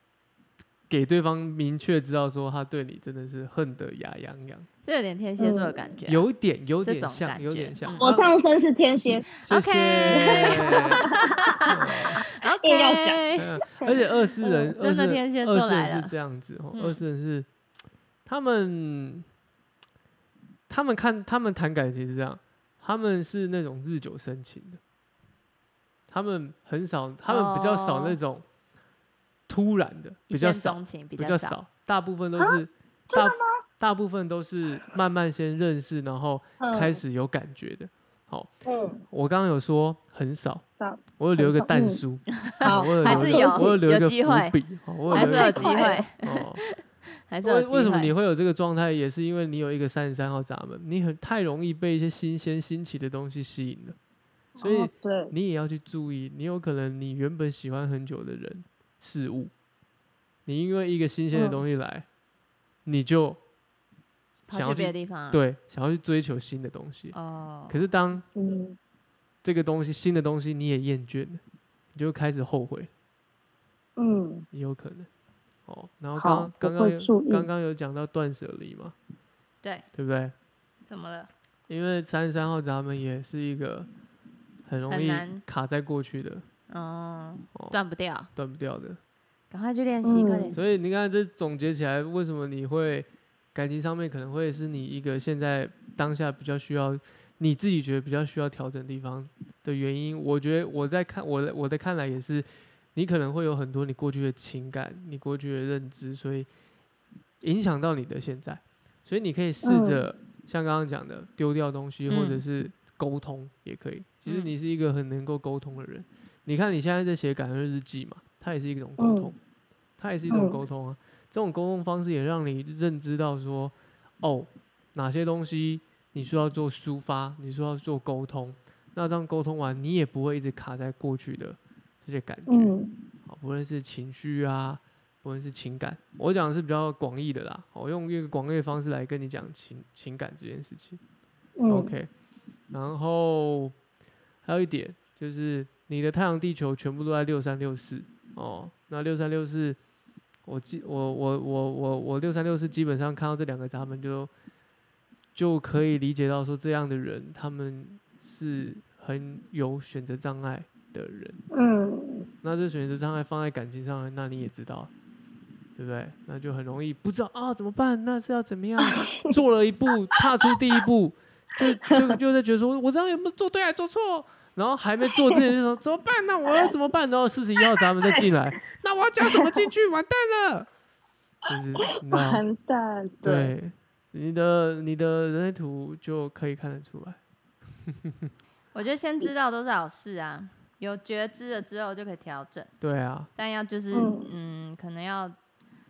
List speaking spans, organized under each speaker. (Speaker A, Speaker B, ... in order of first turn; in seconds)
Speaker A: 0.9-4.7, 6.1-8.3, 9.4-11.1, 11.6-12.2, 13.3-17.5, 18.2-19.2, 20.7-24.8, 26.1-28.4, 29.5-38.5, 39.1-40.6, 41.2-46.6, 47.4-54.0, 54.6-59.5, 60.5-62.0, 62.8-63.4, 64.5-67.2, 67.7-68.2, 69.4-71.4, 71.9-72.9, 74.5-75.1, 75.7-78.9, 79.9-80.3, 81.7-83.9, 84.7-86.4, 88.3-89.0, 90.5-106.5, 107.4-119.4, 120.0-132.7, 133.2-141.0, 141.7-142.1, 142.7-143.7, 144.4-149.8, 150.4-154.3, 155.3-161.4, 162.4-164.9, 165.8-180.7, 181.5-182.4, 183.2-187.2, 188.0-188.3, 192.8-193.3
Speaker B: 4.8-6.2, 6.8-8.0, 9.5-13.4, 14.8-16.1, 16.7-17.0, 27.2-28.2, 30.3-31.5, 42.5-44.5, 45.1-46.7, 47.3-48.1, 64.5-65.4, 67.1-67.8, 80.8-81.3, 84.9-85.4, 86.7-88.3, 89.5-90.6, 112.1-112.4, 114.2-114.5, 188.7-192.7, 193.3-195.3
Speaker C: 5.4-5.8, 8.0-9.3, 10.1-13.3, 13.8-14.7, 33.1-33.6, 36.6-37.0, 38.6-39.0, 40.8-42.0, 42.6-43.8, 45.1-46.0, 54.6-55.3, 61.3-61.6, 68.3-68.8, 74.0-74.5, 76.2-77.5, 90.0-90.5, 109.6-110.0, 119.0-119.3, 120.3-120.6, 132.5-132.9, 141.6-141.9, 161.5-162.3, 182.1-183.5, 193.9-194.3